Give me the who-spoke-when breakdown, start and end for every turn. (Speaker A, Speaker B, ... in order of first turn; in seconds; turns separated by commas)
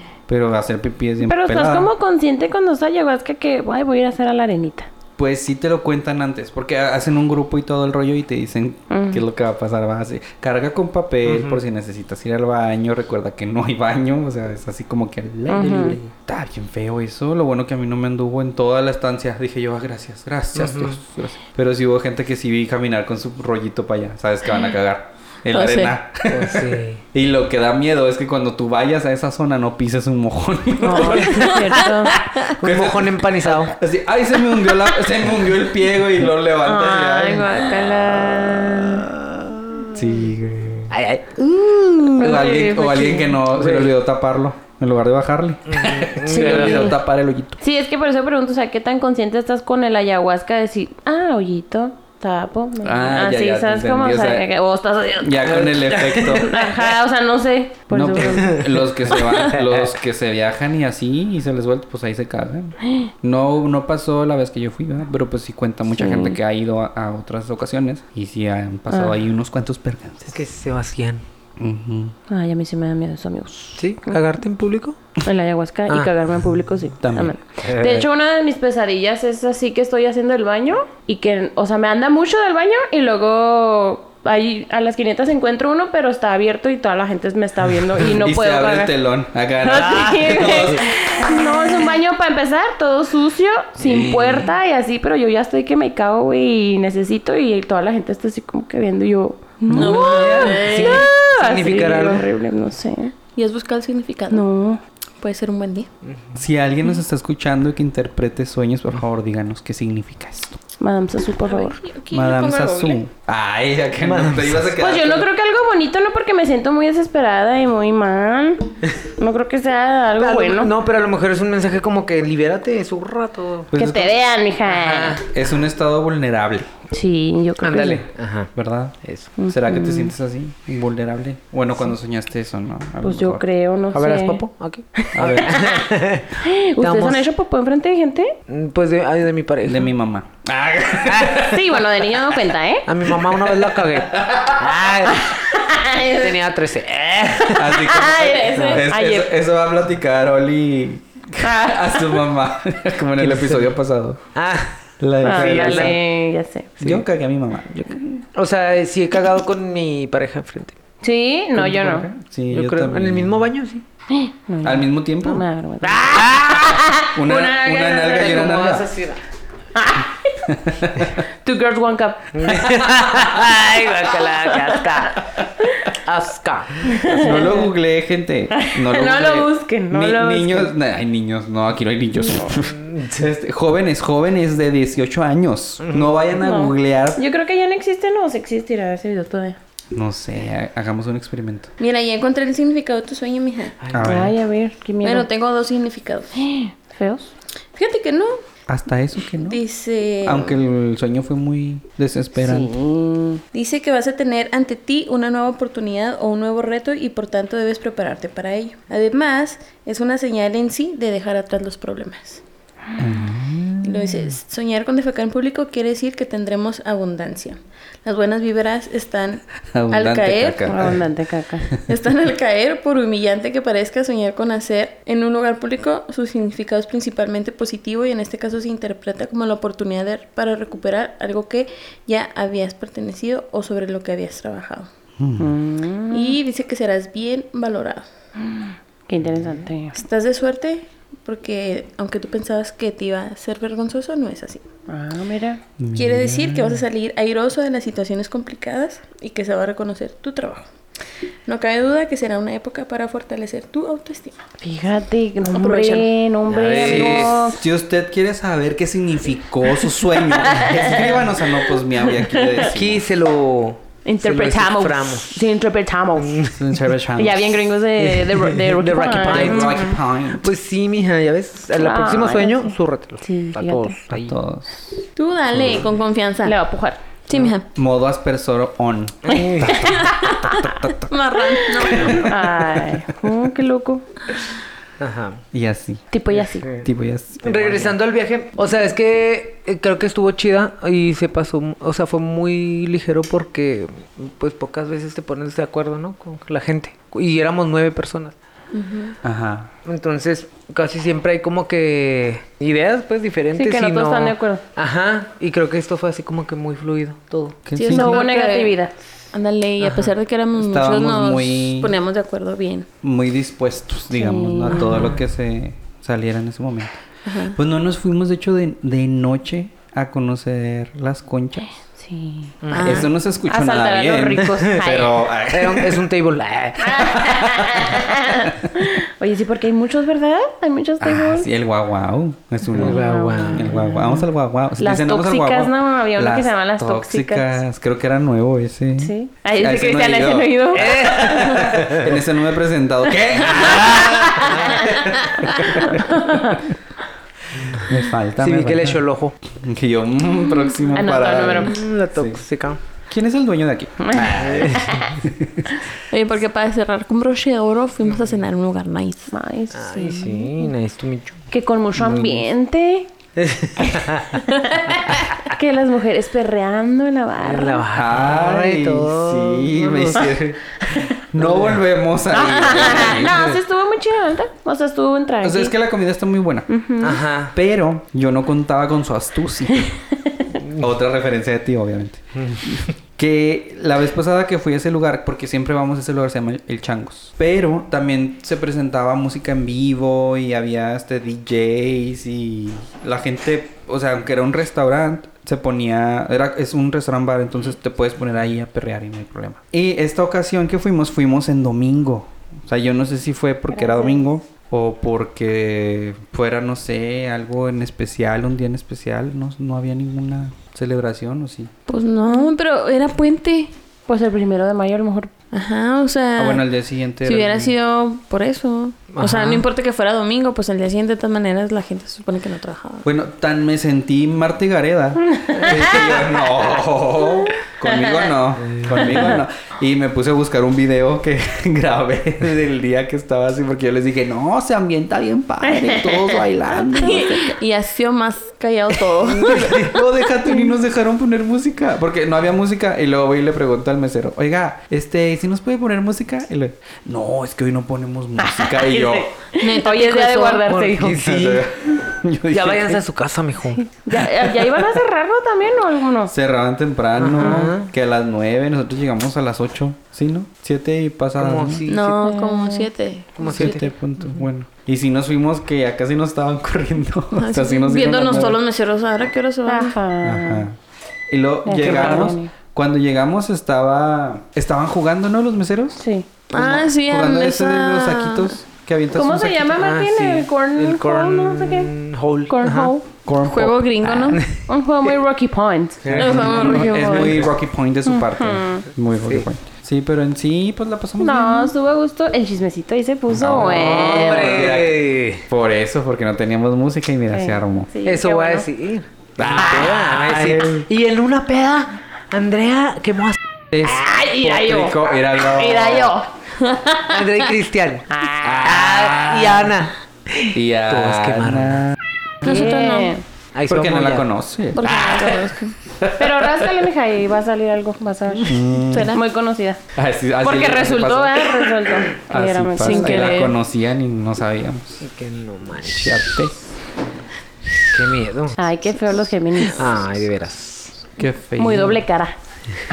Speaker A: 0.3-1.9, Speaker B: 1.2-4.9, Speaker A: 5.2-31.6, Speaker B: 8.9-9.2, Speaker C: 11.2-11.6, Speaker B: 15.5-16.0, Speaker C: 20.5-21.0, Speaker D: 25.5-25.9, Speaker C: 26.3-27.0, Speaker B: 30.8-32.2, Speaker C: 31.0-33.7, Speaker D: 31.1-32.5, Speaker A: 32.6-37.6, Speaker B: 36.6-39.1, Speaker C: 38.8-39.9, Speaker A: 39.9-40.9, Speaker C: 40.9-42.4, Speaker B: 42.2-43.4, Speaker A: 42.2-47.6, Speaker C: 43.4-43.9, Speaker C: 45.7-46.9, Speaker B: 46.2-47.0, Speaker B: 47.6-58.6, Speaker A: 52.8-54.5, Speaker A: 55.2-56.6, Speaker C: 55.4-56.8, Speaker A: 57.9-70.4, Speaker C: 58.2-59.9, Speaker B: 65.9-66.4, Speaker B: 68.9-69.2, Speaker C: 70.3-71.2, Speaker A: 71.6-72.1, Speaker B: 72.3-74.2, Speaker C: 73.8-75.0, Speaker B: 75.2-88.9, Speaker A: 77.0-78.0, Speaker C: 77.7-78.0, Speaker A: 88.1-90.9, Speaker B: 89.6-103.1, Speaker C: 93.8-94.5, Speaker A: 99.7-100.7, Speaker D: 99.7-101.1, Speaker C: 100.2-102.3, Speaker D: 103.3-104.4, Speaker B: 104.3-104.8, Speaker D: 105.2-105.9, Speaker C: 106.0-106.4, Speaker A: 106.3-110.6, Speaker B: 110.8-111.8, Speaker D: 111.4-113.0, Speaker A: 112.1-115.3, Speaker C: 114.0-114.8, Speaker B: 114.8-120.7, Speaker C: 120.2-123.7, Speaker A: 123.7-124.2, Speaker B: 123.7-125.2, Speaker C: 124.6-125.4, Speaker A: 125.2-126.7, Speaker B: 126.9-128.1, Speaker C: 127.6-128.5, Speaker A: 128.5-133.4, Speaker C: 129.0-129.3, Speaker B: 129.4-130.1, Speaker B: 133.0-134.4, Speaker C: 133.9-137.3, Speaker B: 135.0-135.9, Speaker A: 135.1-135.6, Speaker B: 136.4-138.3, Speaker C: 138.5-139.9, Speaker A: 139.6-141.7, Speaker C: 141.0-141.5, Speaker B: 141.4-142.9, Speaker C: 142.8-145.4, Speaker A: 144.1-144.8, Speaker B: 145.1-146.4, Speaker C: 146.1-147.8, Speaker A: 147.5-154.2, Speaker B: 147.7-149.3, Speaker C: 148.5-148.8, Speaker B: 151.4-152.2, Speaker C: 153.2-153.7, Speaker C: 154.3-156.0, Speaker A: 155.0-156.0, Speaker B: 155.2-156.8, Speaker A: 156.8-158.2, Speaker C: 158.3-160.8, Speaker B: 161.0-162.1, Speaker A: 161.6-163.5, Speaker C: 162.5-163.8, Speaker B: 164.1-168.6, Speaker A: 164.6-165.4, Speaker C: 165.8-169.2, Speaker A: 167.1-168.9, Speaker B: 169.7-170.3, Speaker A: 170.4-171.2, Speaker B: 171.2-172.8, Speaker C: 172.3-175.2, Speaker C: 175.9-177.4, Speaker B: 176.9-177.7, Speaker A: 177.1-187.2, Speaker B: 178.5-180.7, Speaker C: 182.6-183.1, Speaker C: 185.8-186.1, Speaker B: 186.4-189.6, Speaker A: 189.9-191.7, Speaker D: 191.8-193.8, Speaker C: 193.8-194.1, Speaker A: 193.9-194.3, Speaker B: 194.0-195.2, Speaker D: 195.0-196.3, Speaker B: 196.3-197.3, Speaker D: 197.8-198.4, Speaker A: 198.7-199.6, Speaker D: 199.3-200.6, Speaker A: 200.2-202.7, Speaker B: 202.3-203.4, Speaker D: 203.5-212.4, Speaker A: 213.0-214.3, Speaker D: 213.8-220.7, Speaker A: 219.7-221.1, Speaker B: 220.6-221.7, Speaker D: 221.8-234.9, Speaker A: 235.2-235.6, Speaker B: 235.4-236.3, Speaker D: 236.1-238.0, Speaker B: 238.5-240.0, Speaker D: 239.9-244.7, Speaker B: 244.9-245.6, Speaker A: 245.8-246.8, Speaker D: 245.9-250.7, Speaker D: 251.4-254.4, Speaker B: 254.6-257.6, Speaker D: 255.5-256.1, Speaker C: 256.4-257.5, Speaker A: 256.8-263.1, Speaker B: 260.5-261.0, Speaker B: 262.2-262.6, Speaker C: 262.7-265.4, Speaker B: 264.0-266.5, Speaker C: 266.2-266.8, Speaker A: 266.5-267.8, Speaker B: 267.1-269.8, Speaker C: 268.0-274.3, Speaker A: 269.2-270.5, Speaker B: 271.8-273.9, Speaker A: 274.1-275.0, Speaker D: 275.2-276.6, Speaker C: 275.6-275.9, Speaker B: 276.4-277.0, Speaker D: 277.3-277.7, Speaker A: 277.7-283.0, Speaker C: 279.2-279.9, Speaker B: 279.6-280.7, Speaker D: 281.1-282.3, Speaker B: 281.8-284.0, Speaker C: 285.0-285.4, Speaker A: 285.5-286.1, Speaker B: 286.1-286.7, Speaker C: 286.3-286.9, Speaker A: 286.8-288.0, Speaker C: 287.4-298.3, Speaker D: 298.7-299.2, Speaker A: 299.2-299.7, Speaker C: 299.8-307.6, Speaker B: 303.6-304.6, Speaker A: 307.6-308.2, Speaker D: 307.8-308.8, Speaker B: 307.8-308.9, Speaker D: 309.3-312.9, Speaker C: 309.8-310.1, Speaker A: 310.6-311.9, Speaker A: 313.0-316.9, Speaker B: 314.1-315.1, Speaker C: 314.8-315.1, Speaker D: 317.2-317.6, Speaker A: 317.5-321.7, Speaker B: 322.0-322.6, Speaker C: 322.6-323.1, Speaker D: 322.7-323.1, Speaker A: 322.8-326.0, Speaker B: 323.5-325.2, Speaker C: 324.4-324.8, Speaker C: 325.5-327.3, Speaker B: 326.8-331.5, Speaker A: 327.1-328.1, Speaker A: 331.0-346.6, Speaker B: 332.7-334.2, Speaker C: 332.7-333.9, Speaker B: 334.8-337.6, Speaker B: 339.0-340.9, Speaker C: 340.7-342.2, Speaker B: 343.8-344.8, Speaker C: 344.4-345.7, Speaker B: 345.8-346.6, Speaker A: 347.6-352.4, Speaker C: 348.4-349.3, Speaker B: 350.9-351.7, Speaker C: 351.6-352.8, Speaker A: 353.1-355.9, Speaker B: 354.0-355.2, Speaker C: 354.2-355.0, Speaker D: 356.1-359.3, Speaker B: 359.3-360.7, Speaker C: 359.7-362.4, Speaker B: 361.5-363.1, Speaker C: 363.4-364.4, Speaker B: 364.5-367.9, Speaker C: 367.4-370.1, Speaker A: 367.9-373.6, Speaker C: 371.4-371.8, Speaker B: 372.3-375.7, Speaker A: 375.4-376.7, Speaker B: 376.7-377.2, Speaker C: 377.0-377.5, Speaker A: 377.5-380.0, Speaker C: 380.5-380.9, Speaker A: 380.7-411.7, Speaker C: 382.4-382.8, Speaker B: 403.9-404.1, Speaker D: 411.9-413.7, Speaker B: 414.1-415.3, Speaker D: 415.5-416.7, Speaker A: 416.4-417.7, Speaker D: 417.2-423.1, Speaker C: 419.1-419.6, Speaker A: 423.0-437.5, Speaker B: 425.3-425.8, Speaker C: 428.6-429.3, Speaker B: 435.9-436.2, Speaker D: 436.8-440.0, Speaker B: 436.9-437.3, Speaker C: 439.2-440.0, Speaker A: 439.4-449.3, Speaker B: 448.4-451.2, Speaker D: 449.5-450.7, Speaker C: 450.6-451.6, Speaker A: 451.2-453.0, Speaker C: 452.5-453.8, Speaker B: 453.8-456.3, Speaker A: 454.4-454.7, Speaker A: 456.3-461.8, Speaker C: 457.1-457.9, Speaker C: 461.4-462.3, Speaker D: 461.9-463.8, Speaker B: 462.2-462.9, Speaker C: 463.4-464.4, Speaker A: 463.5-468.6, Speaker D: 467.4-470.0, Speaker B: 469.6-470.6, Speaker A: 470.2-470.8, Speaker A: 471.3-479.9, Speaker B: 471.6-472.5, Speaker C: 471.8-472.3, Speaker B: 476.0-476.3, Speaker D: 476.5-478.5, Speaker B: 479.1-481.9, Speaker C: 479.7-482.9, Speaker B: 482.5-483.1, Speaker A: 483.2-484.4, Speaker D: 483.4-484.4, Speaker C: 484.3-484.6, Speaker B: 484.7-486.2, Speaker C: 486.0-487.5, Speaker A: 486.1-491.7, Speaker D: 486.2-487.5, Speaker B: 488.1-488.9, Speaker C: 489.2-489.5, Speaker B: 491.2-494.8, Speaker A: 493.3-497.9, Speaker C: 493.4-495.4, Speaker B: 497.3-498.7, Speaker C: 498.0-503.4, Speaker A: 499.4-500.9, Speaker A: 503.7-506.1, Speaker B: 503.8-506.3, Speaker D: 506.6-507.2, Speaker C: 507.0-511.8, Speaker B: 508.1-508.6, Speaker A: 508.4-509.7, Speaker A: 510.5-511.9, Speaker D: 512.4-513.1, Speaker B: 512.4-513.2, Speaker C: 513.5-514.3, Speaker A: 513.7-516.9, Speaker D: 514.7-515.8, Speaker B: 516.1-519.8, Speaker A: 518.5-519.2, Speaker D: 518.8-519.2, Speaker A: 519.9-525.0, Speaker B: 520.4-523.5, Speaker D: 522.8-523.3, Speaker C: 525.0-526.3, Speaker A: 525.8-526.7, Speaker C: 527.9-528.6, Speaker B: 528.5-529.9, Speaker C: 529.6-531.0, Speaker A: 531.1-532.0, Speaker B: 531.6-532.4